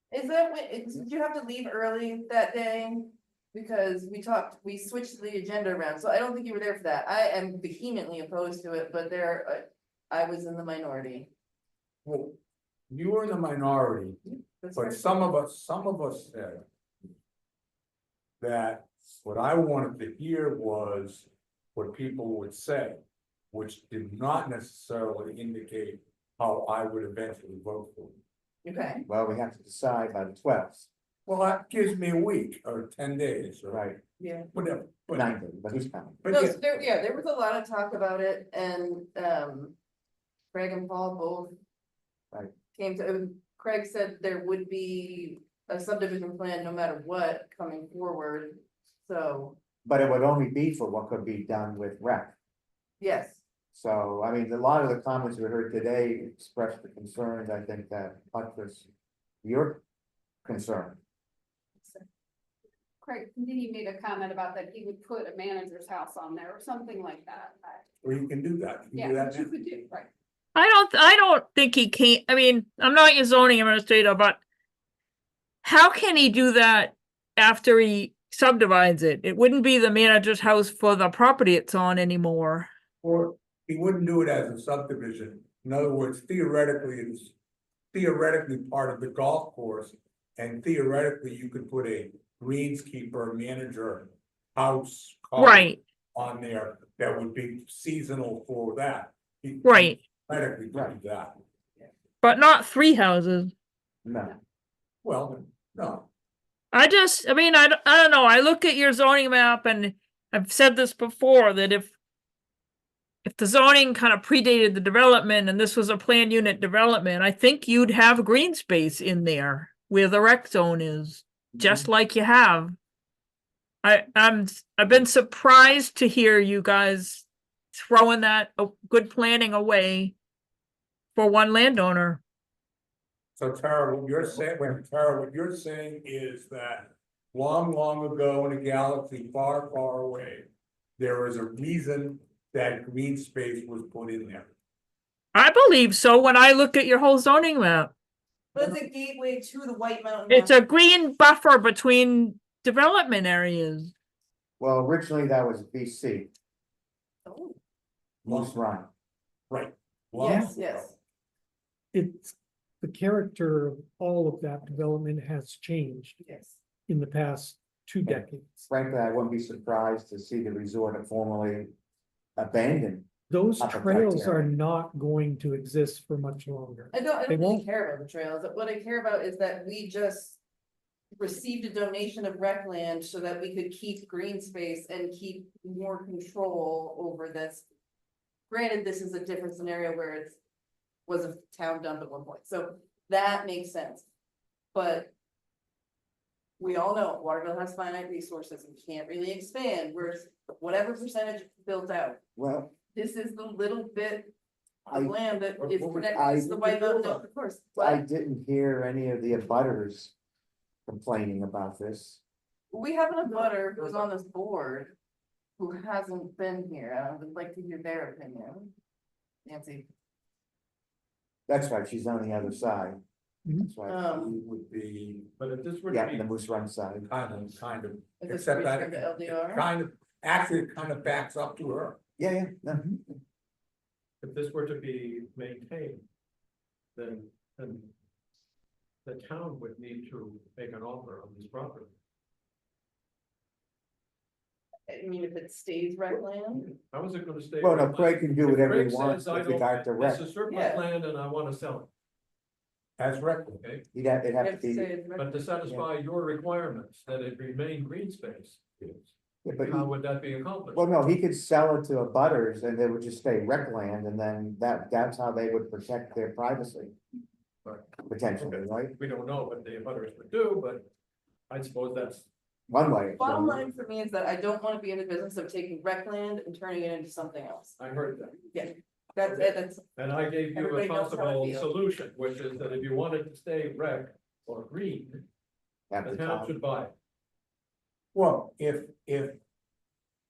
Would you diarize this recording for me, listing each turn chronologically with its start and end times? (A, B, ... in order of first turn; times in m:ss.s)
0:00.1-0:11.3 A
0:12.0-0:12.4 B
0:12.9-0:14.2 B
0:14.3-0:15.2 A
0:14.7-0:16.7 B
0:18.4-0:23.0 B
0:23.5-0:28.2 B
0:28.6-0:29.0 A
0:29.0-0:30.9 C
0:31.3-0:33.9 B
0:33.7-0:34.0 C
0:34.2-0:34.5 A
0:34.5-0:35.3 B
0:35.1-0:36.3 C
0:36.2-0:36.7 B
0:36.3-0:39.8 A
0:40.5-0:41.6 A
0:42.7-0:49.6 A
0:49.8-0:52.3 C
0:53.0-0:53.4 A
0:53.7-0:58.9 C
0:59.4-0:59.8 C
1:00.4-1:01.0 C
1:03.1-1:07.8 D
1:08.0-1:09.6 B
1:09.2-1:10.0 D
1:10.6-1:14.4 E
1:15.6-1:22.7 E
1:23.0-1:27.3 B
1:27.9-1:41.4 B
1:35.4-1:35.8 E
1:39.6-1:40.0 E
1:42.2-1:43.5 E
1:44.0-1:44.3 C
1:45.0-1:46.1 B
1:46.7-1:51.9 E
1:53.2-2:02.7 E
2:01.6-2:01.9 C
2:03.8-2:10.1 E
2:11.1-2:12.2 E
2:13.4-2:24.5 B
2:25.3-2:27.9 E
2:28.5-2:30.6 A
2:30.3-2:33.9 E
2:34.6-2:36.3 C
2:37.2-2:37.6 A
2:38.2-2:38.6 B
2:38.3-2:38.9 C
2:39.5-2:40.9 B
2:40.2-2:40.9 A
2:41.9-2:46.2 F
2:46.2-2:46.6 A
2:46.9-2:48.7 F
2:48.0-2:51.7 C
2:52.4-2:53.1 C
2:53.3-2:57.7 F
2:53.6-2:54.5 C
2:56.9-3:00.4 A
3:01.2-3:07.6 A
3:08.5-3:10.4 A
3:11.1-3:14.0 A
3:14.7-3:15.1 A
3:16.6-3:22.2 A
3:22.4-3:22.7 C
3:22.9-3:24.3 A
3:24.9-3:28.0 A
3:24.9-3:25.2 C
3:25.6-3:27.3 G
3:26.1-3:26.6 C
3:27.7-3:30.1 C
3:30.8-3:32.2 C
3:32.7-3:34.9 A
3:35.6-3:38.7 A
3:39.4-3:39.9 A
3:41.5-3:43.0 C
3:43.6-3:44.2 C
3:43.9-3:44.3 A
3:44.2-3:45.3 B
3:45.4-3:46.2 G
3:45.9-3:47.0 C
3:47.0-3:52.0 B
3:48.2-3:49.7 A
3:52.2-3:53.0 C
3:54.2-3:56.0 G
3:56.9-3:57.9 G
3:59.0-4:01.9 G
4:04.9-4:06.7 A
4:06.7-4:11.9 G
4:07.6-4:10.2 C
4:10.5-4:10.8 A
4:13.0-4:13.6 B
4:13.9-4:14.9 C
4:14.4-4:15.3 A
4:15.2-4:21.0 G
4:19.4-4:19.9 C
4:20.7-4:26.9 C
4:27.6-4:30.9 G
4:28.1-4:29.0 C
4:31.5-4:32.2 G
4:32.7-4:33.7 C
4:33.2-4:37.8 A
4:37.8-4:38.5 G
4:38.5-4:39.8 A
4:39.2-4:45.2 G
4:40.5-4:41.7 A
4:45.9-4:46.5 C
4:46.0-4:46.9 G
4:48.1-4:49.4 B